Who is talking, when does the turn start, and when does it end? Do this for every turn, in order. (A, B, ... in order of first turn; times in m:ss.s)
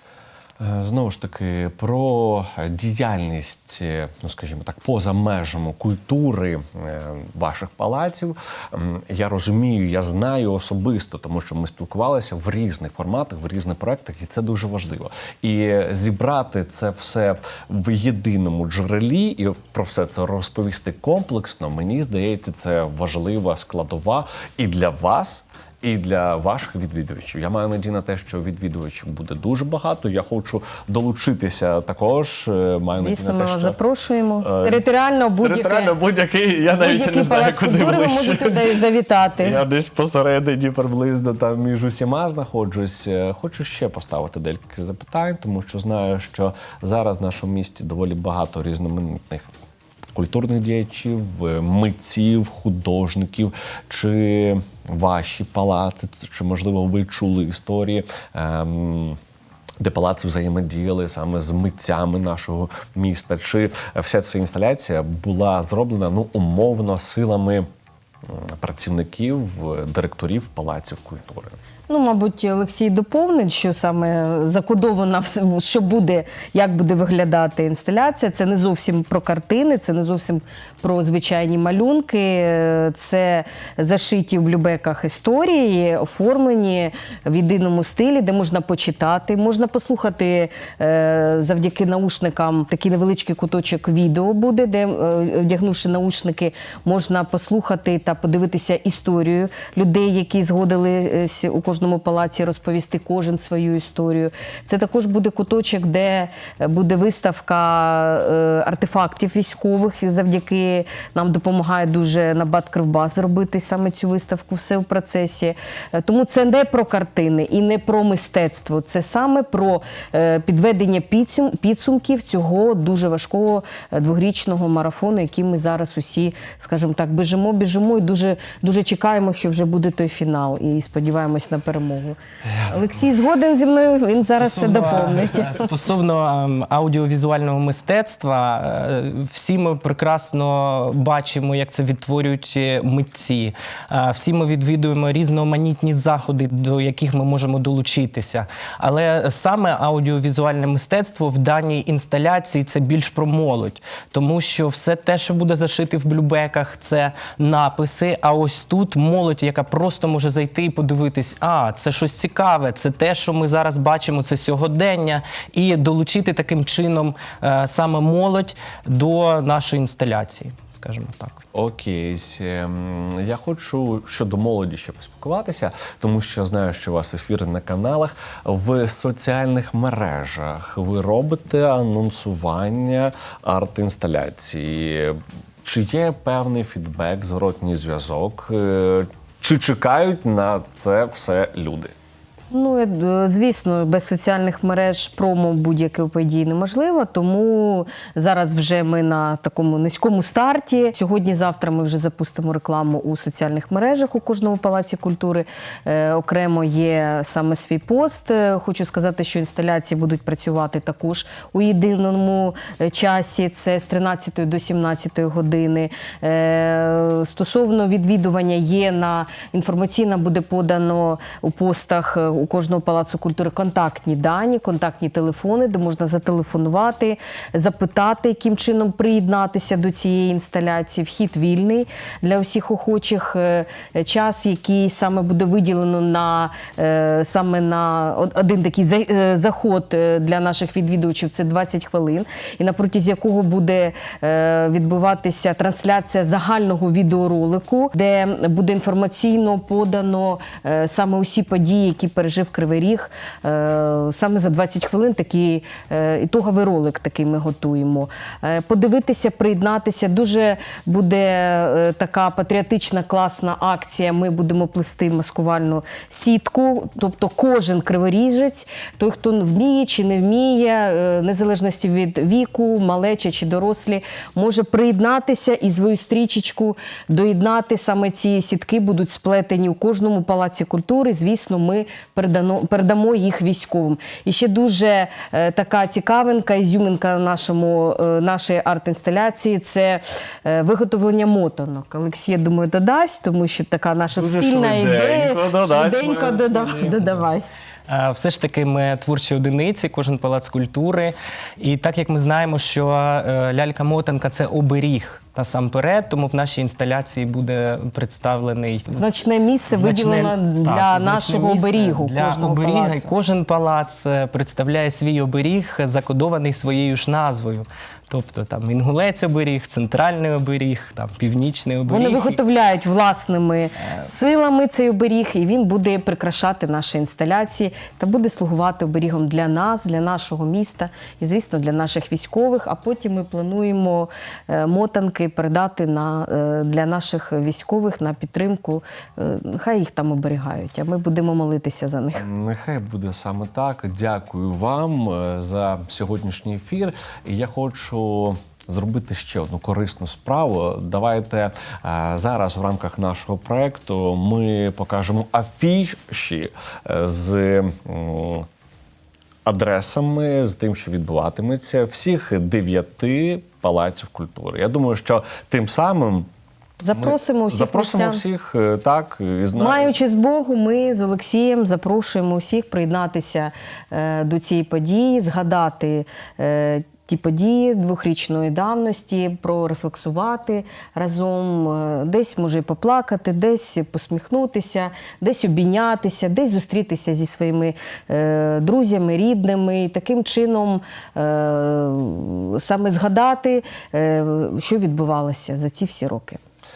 0:00.6-0:33.8 A
0:33.0-0:36.0 B
0:34.4-0:34.8 A
0:35.4-0:38.7 A
0:36.7-0:39.6 B
0:39.4-0:49.5 A
0:50.2-0:59.2 A
0:59.8-1:07.7 A
1:08.3-1:11.6 A
1:11.9-2:15.7 B
2:14.4-2:51.4 C
2:51.5-3:11.9 A
3:12.5-4:57.4 B
4:54.1-4:57.1 A
4:57.9-5:09.0 C
5:09.0-5:13.1 B
5:09.7-5:22.4 C
5:21.9-5:42.3 B
5:42.2-5:58.5 A
5:59.5-6:06.3 A
6:06.8-6:08.2 B
6:06.9-6:09.9 A
6:09.6-6:36.4 B